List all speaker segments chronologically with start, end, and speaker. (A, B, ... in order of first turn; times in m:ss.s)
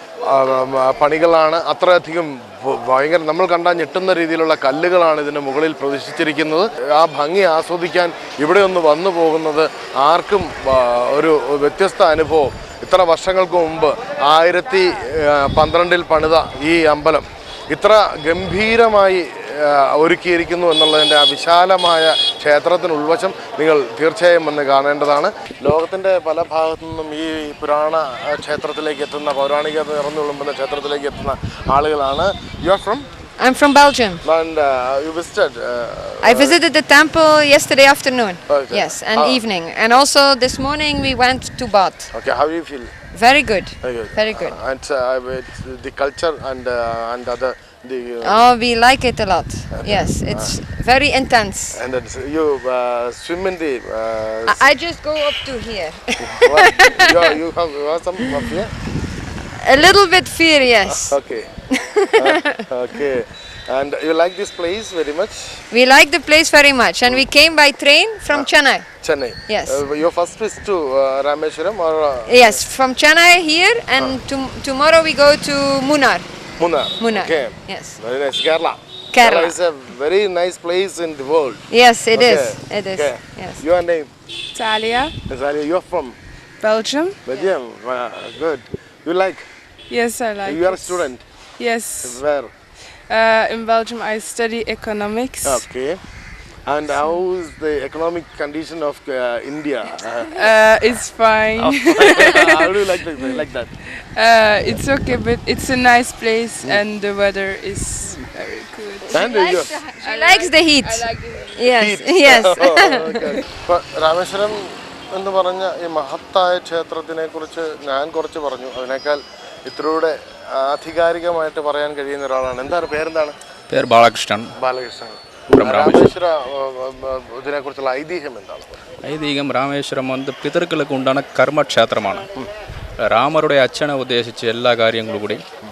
0:00.2-0:33.0 A
0:33.4-0:34.2 B
0:34.2-0:36.6 A
0:36.2-0:42.1 B
0:38.5-0:39.4 A
0:42.1-0:42.9 A
0:43.1-0:44.6 B
0:43.8-0:48.4 A
0:48.2-0:51.8 B
0:49.7-0:50.6 A
0:51.7-0:54.6 A
0:54.5-0:57.3 B
0:56.2-0:58.7 A
0:59.6-1:01.1 B
1:00.9-1:01.5 A
1:01.7-1:02.6 B
1:02.1-1:05.6 A
1:05.7-1:08.8 B
1:09.0-1:12.6 A
1:09.5-1:09.8 B
1:12.3-1:16.2 B
1:16.6-1:24.1 A
1:17.0-1:18.0 B
1:19.1-1:19.6 B
1:21.7-1:23.6 B
1:24.5-1:25.1 C
1:25.3-1:26.2 A
1:26.6-1:27.2 C
1:27.2-1:29.5 A
1:29.9-1:32.2 C
1:30.4-1:31.2 A
1:32.0-1:32.5 A
1:33.1-1:35.6 C
1:35.4-1:36.0 A
1:36.7-1:40.4 A
1:40.3-1:43.4 C
1:41.6-1:43.7 A
1:43.9-1:51.6 C
1:49.1-1:49.7 A
1:49.2-1:53.3 B
1:51.7-2:03.3 A
2:03.7-2:04.5 D
2:04.6-2:08.8 A
2:05.6-2:06.1 D
2:09.0-2:12.3 D
2:13.0-2:15.4 D